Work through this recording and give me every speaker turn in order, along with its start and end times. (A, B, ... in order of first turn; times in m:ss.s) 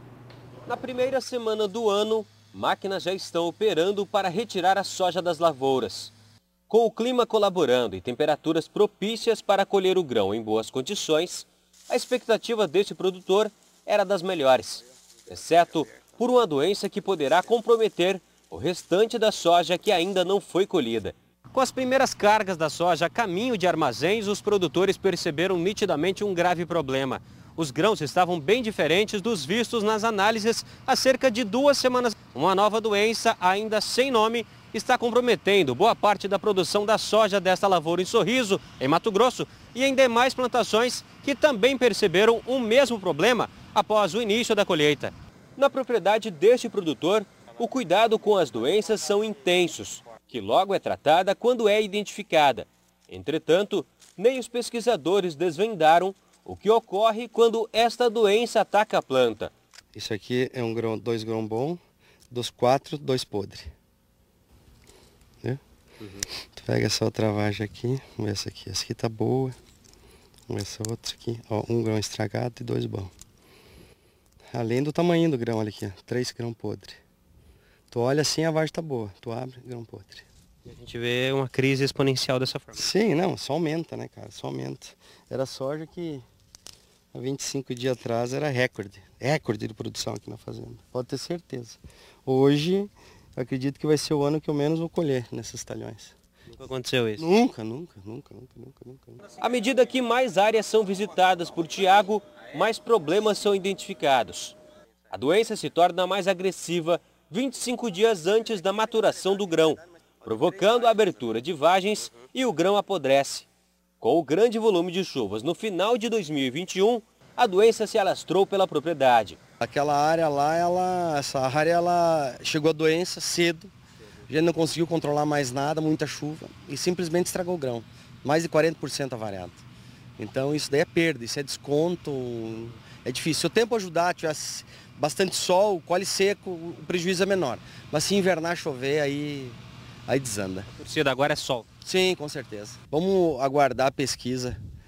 0:00.7-0:06.1 A
0:06.7-0:59.5 A
0:59.9-1:03.7 B
1:06.6-1:09.6 B
1:10.5-1:13.1 B
1:14.5-1:17.0 B
1:17.9-1:20.2 B
1:20.6-1:22.9 A
1:22.7-1:26.2 B
1:27.1-1:36.2 B
1:36.5-1:37.2 A
1:37.2-1:39.2 B
1:39.4-1:44.6 A
1:45.1-1:53.5 A
1:54.0-1:59.4 A
1:59.6-2:03.7 B
2:04.3-2:09.6 B
2:10.2-2:20.7 B
2:20.7-2:21.6 A
2:21.8-2:24.6 B